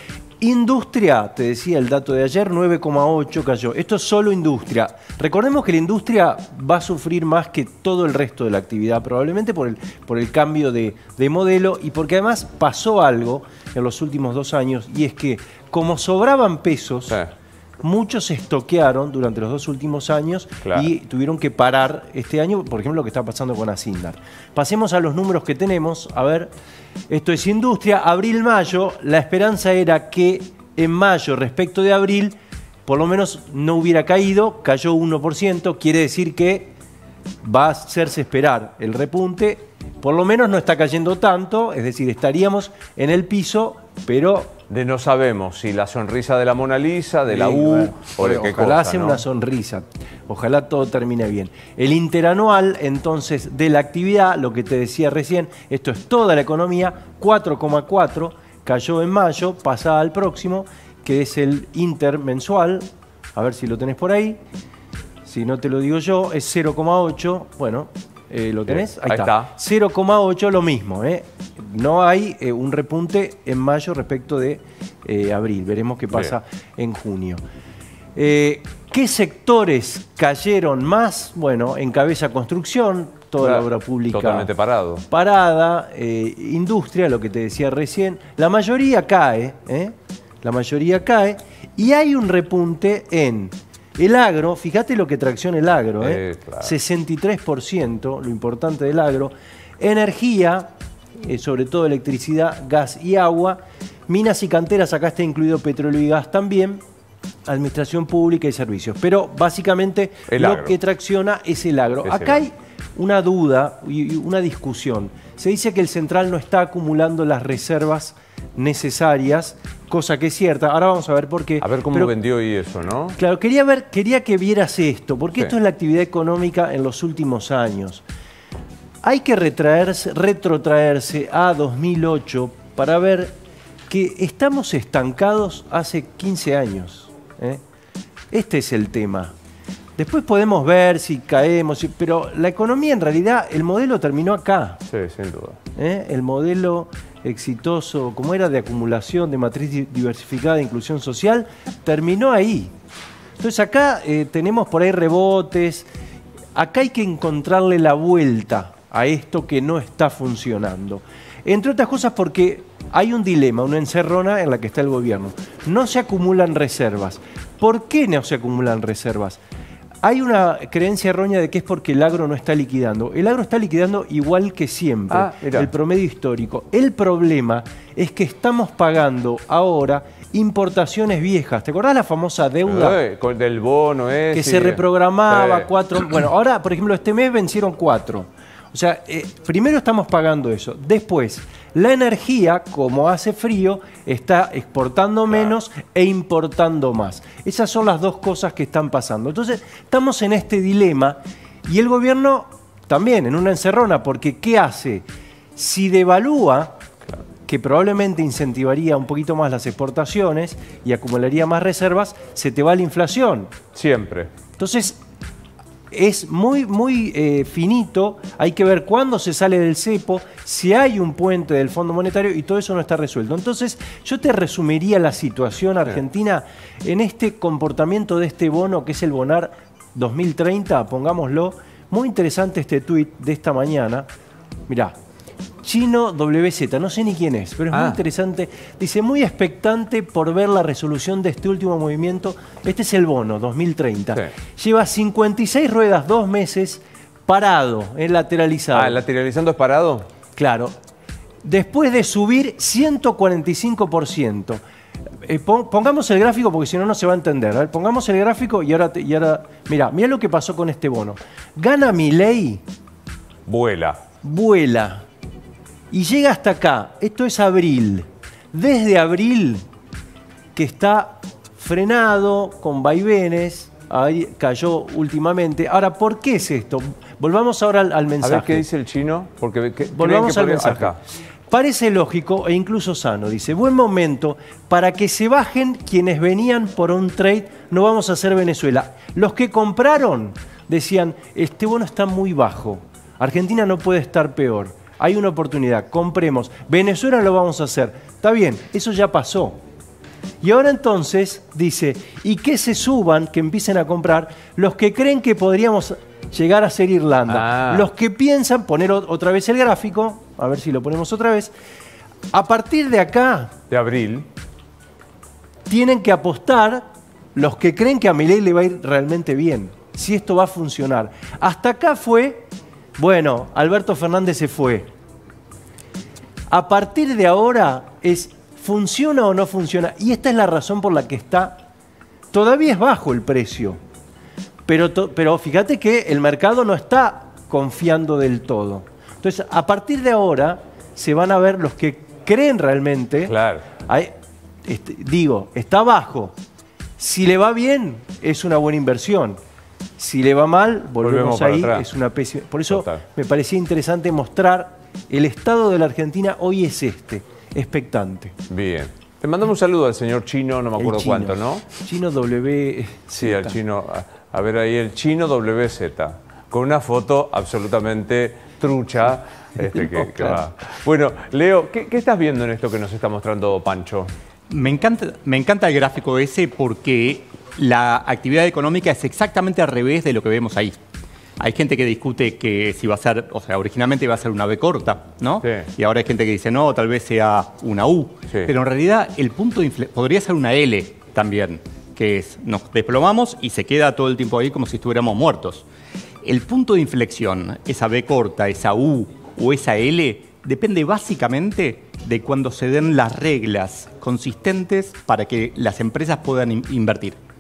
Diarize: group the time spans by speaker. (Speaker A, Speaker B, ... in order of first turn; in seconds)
Speaker A: 0.4-17.2, 17.8-26.5, 27.1-32.4, 32.9-36.7, 37.4-44.5, 47.3-64.4, 65.2-77.4, 78.2-84.5, 85.1-106.8, 107.5-122.1, 123.2-128.0, 129.0-133.3, 133.9-137.6, 138.3-139.3, 140.0-144.8, 145.8-152.7, 153.4-155.9, 156.6-169.4, 170.0-183.0, 184.3-206.7, 207.5-213.5, 214.6-215.0, 215.9-234.1, 234.7-234.9, 235.6-249.0, 250.4-250.7, 251.4-254.6, 255.3-262.6, 264.2-265.1, 265.9-269.6, 270.6-278.6, 279.9-281.0, 281.5-299.6, 300.4-311.5, 312.3-313.5, 315.7-316.8, 317.4-322.5, 323.0-324.9, 326.5-331.6, 332.3-333.8, 334.7-343.3, 343.9-344.1, 344.7-346.3, 347.0-349.4, 350.0-358.3, 360.8-363.6
Speaker B: 20.6-20.9, 44.7-49.2, 68.7-69.5, 83.4-85.0, 96.0-96.7, 110.3-110.8, 112.0-112.4, 121.6-123.2, 144.9-145.6, 175.1-175.7, 182.7-185.7, 213.8-214.3, 237.7-238.0, 248.7-250.1, 263.5-264.0, 278.2-281.0, 307.3-307.9, 313.7-314.3, 343.3-343.7, 351.0-351.9, 352.7-353.0, 358.5-361.7, 363.2-374.1
Speaker C: 374.5-380.8, 381.4-395.7, 396.2-407.2